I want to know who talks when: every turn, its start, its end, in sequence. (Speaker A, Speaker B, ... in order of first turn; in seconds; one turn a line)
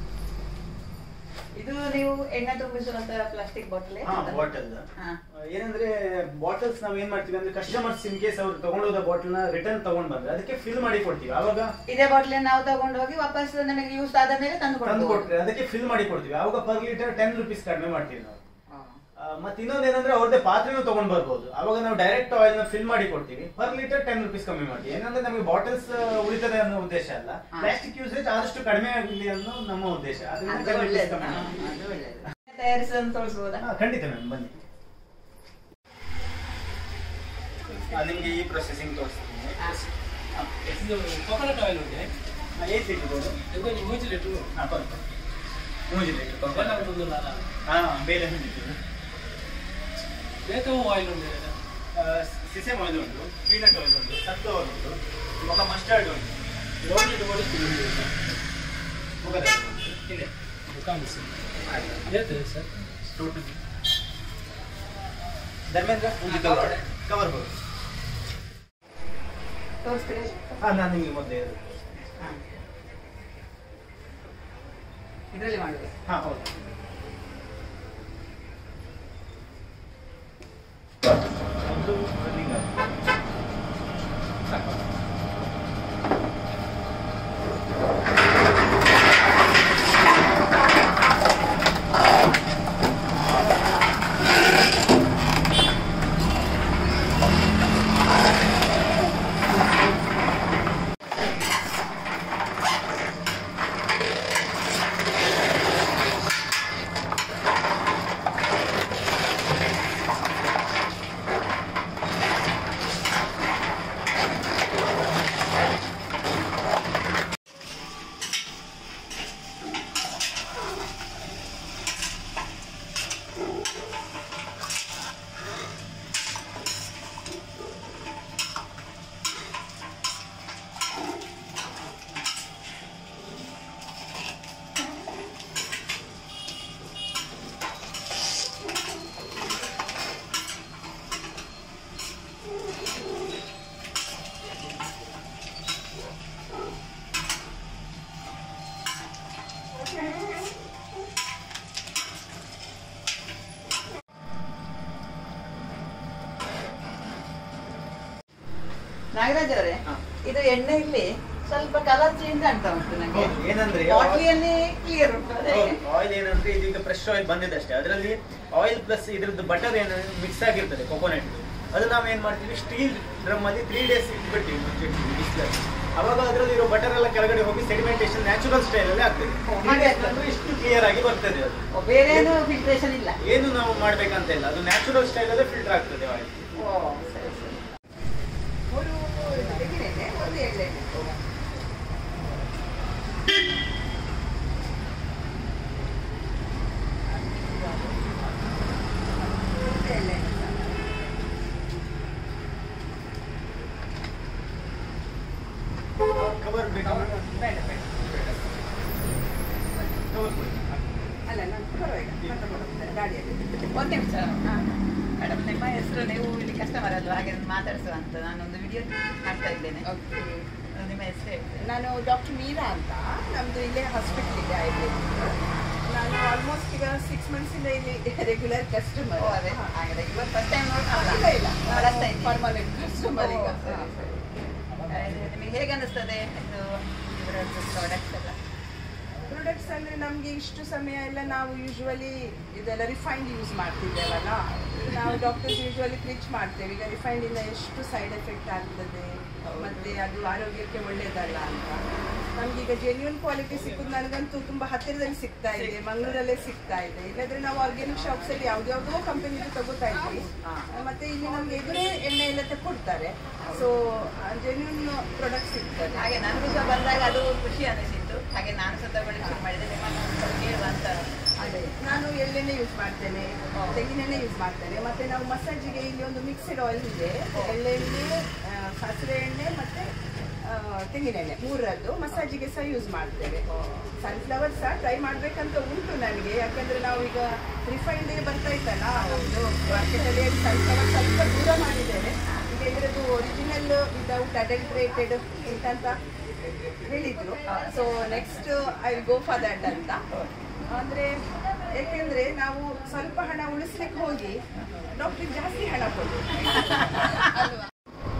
Speaker A: 1.5-5.2
Speaker B: 4.0-4.9
Speaker B: 5.5-11.7
Speaker A: 11.9-15.3
Speaker B: 14.8-18.4
Speaker A: 18.7-19.0
Speaker B: 19.2-31.5
Speaker A: 30.5-33.6
Speaker B: 33.6-34.6
Speaker B: 37.9-39.6
Speaker B: 40.4-40.8
Speaker C: 40.8-42.1
Speaker B: 42.6-43.4
Speaker C: 43.5-44.5
Speaker B: 44.5-45.2
Speaker B: 45.9-46.9
Speaker C: 46.5-47.5
Speaker B: 47.7-48.8
Speaker C: 50.4-51.5
Speaker B: 51.9-56.4
Speaker C: 56.8-58.2
Speaker B: 59.2-60.0
Speaker C: 60.1-61.3
Speaker B: 61.7-62.0
Speaker C: 62.0-62.7
Speaker B: 63.1-63.6
Speaker B: 65.7-67.5
Speaker A: 66.3-66.8
Speaker A: 69.8-70.6
Speaker B: 70.6-72.0
Speaker A: 75.3-75.9
Speaker B: 76.1-76.5
Speaker B: 81.6-82.7
Speaker A: 159.1-165.8
Speaker B: 163.1-164.3
Speaker B: 165.5-182.3
Speaker A: 179.5-180.2
Speaker A: 181.7-183.2
Speaker B: 183.2-186.5
Speaker A: 186.6-187.6
Speaker D: 188.7-191.2
Speaker A: 189.3-191.1
Speaker D: 197.3-197.9
Speaker D: 199.3-200.9
Speaker B: 206.2-207.2
Speaker D: 206.9-207.8
Speaker B: 209.9-211.0
Speaker D: 211.3-213.6
Speaker A: 213.7-214.6
Speaker A: 215.2-219.8
Speaker D: 219.8-220.4
Speaker A: 220.8-221.7
Speaker D: 221.6-229.7
Speaker A: 229.2-234.2
Speaker D: 230.9-234.1
Speaker C: 234.8-235.2
Speaker A: 234.9-238.4
Speaker D: 239.2-251.8
Speaker A: 244.9-245.2
Speaker A: 249.4-250.0
Speaker D: 252.4-266.1
Speaker A: 255.5-256.2
Speaker A: 263.4-263.7
Speaker A: 265.9-271.7
Speaker D: 271.4-279.9
Speaker A: 273.6-273.8
Speaker D: 280.4-296.0
Speaker A: 283.5-283.9
Speaker A: 288.9-289.9
Speaker D: 296.8-300.0
Speaker A: 297.4-298.4
Speaker D: 300.7-304.4
Speaker D: 304.9-307.5
Speaker A: 306.5-307.5